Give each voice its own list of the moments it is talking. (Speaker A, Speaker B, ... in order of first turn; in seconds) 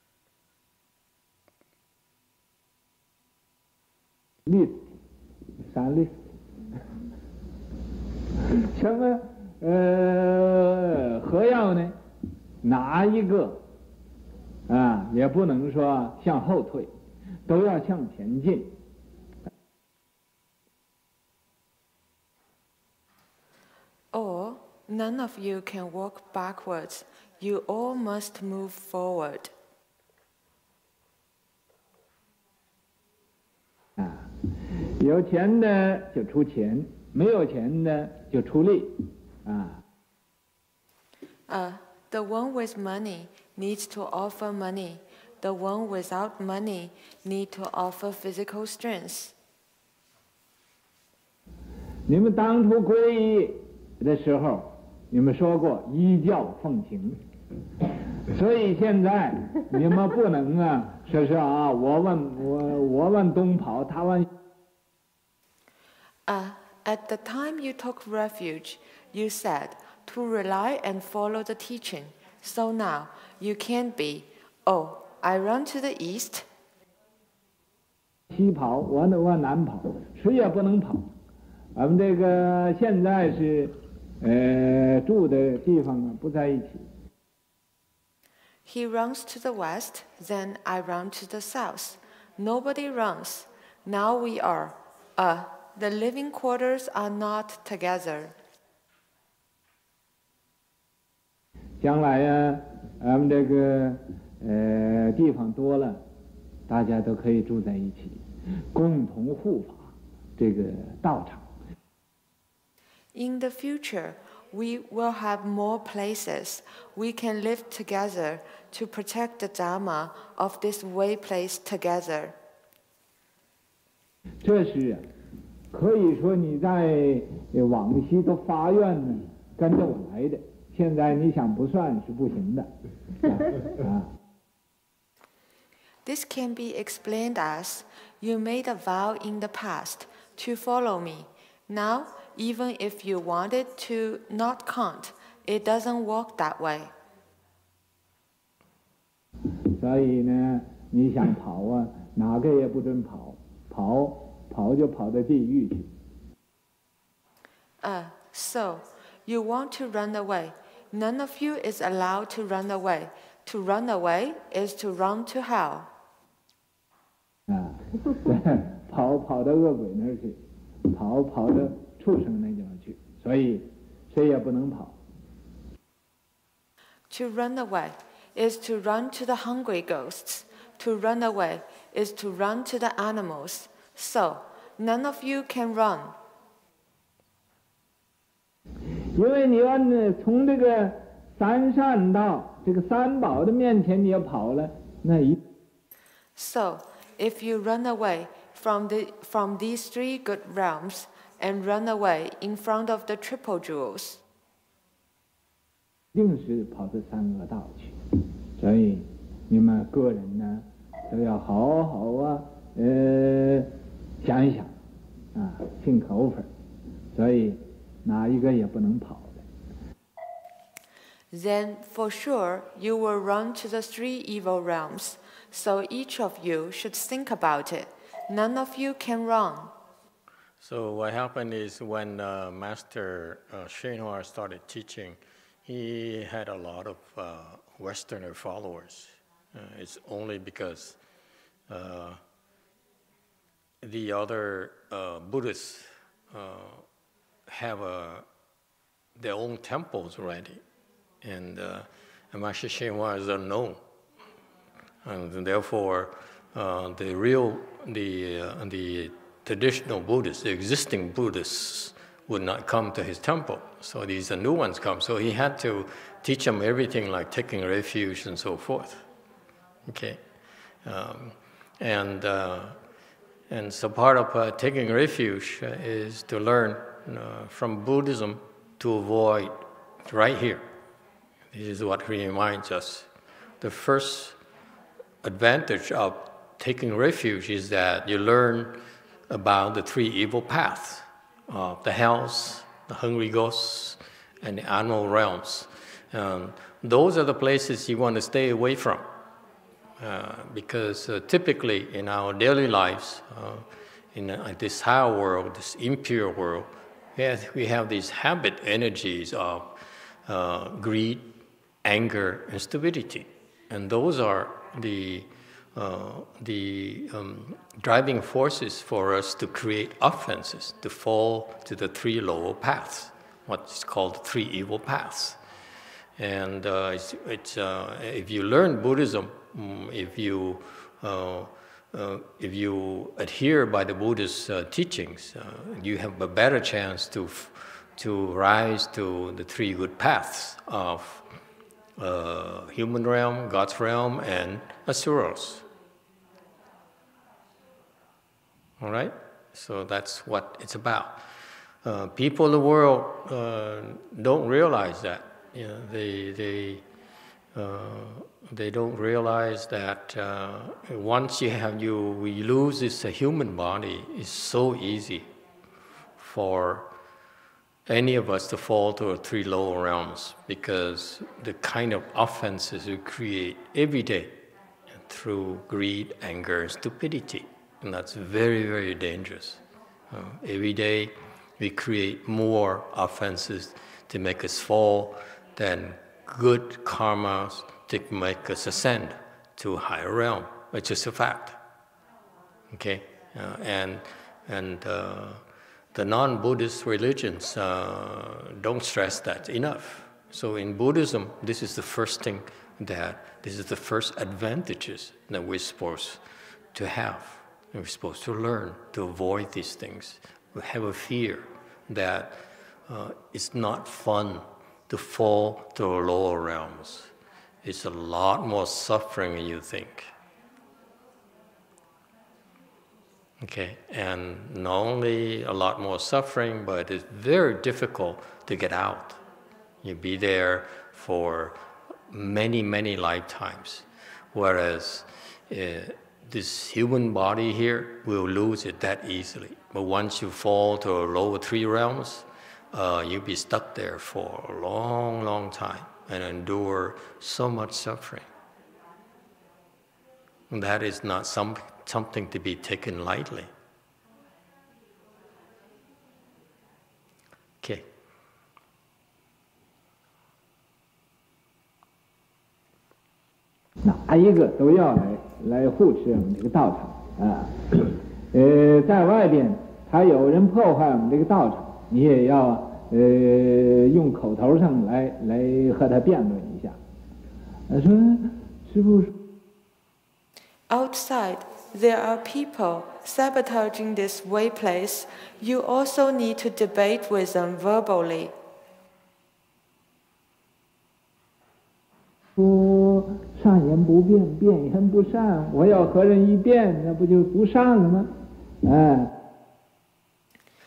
Speaker A: 4.5-4.9, 5.7-6.2, 8.5-12.0, 12.6-13.6, 14.7-16.9, 17.5-18.8, 34.0-39.8, 52.1-57.2, 57.8-64.3, 78.3-81.1, 81.8-86.9, 101.8-106.0, 106.7-111.5, 124.4-125.0, 125.7-132.7, 133.2-134.1, 149.7-155.9, 167.5-175.0, 189.1-195.4, 206.1-214.7, 215.3-216.5, 217.1-219.4, 463.8-476.8, 477.7-479.1, 492.4-499.1
Speaker B: 24.1-29.5, 41.5-49.3, 66.3-76.5, 88.7-98.3, 113.1-122.3, 136.0-146.9, 157.8-165.9, 177.1-186.1, 196.3-204.2, 221.3-229.7, 480.7-488.3
Speaker C: 230.6-241.0, 241.7-242.2, 243.8-246.8, 247.5-248.2, 249.2-250.6, 251.2-253.8, 255.0-269.0, 269.9-270.2, 270.8-272.8, 273.5-280.6, 281.5-283.1, 283.6-284.4, 285.2-299.1, 300.0-309.7, 310.3-311.3, 311.8-325.4, 326.2-341.2, 342.0-345.6, 348.8-351.2, 351.8-356.8, 357.5-365.3, 366.2-366.9, 367.9-374.4, 375.0-379.6, 380.1-391.6, 392.7-395.4, 395.9-406.2, 406.7-417.1, 417.6-420.1, 423.4-429.2, 429.8-431.6, 432.1-448.2, 450.5-453.5, 457.6-457.9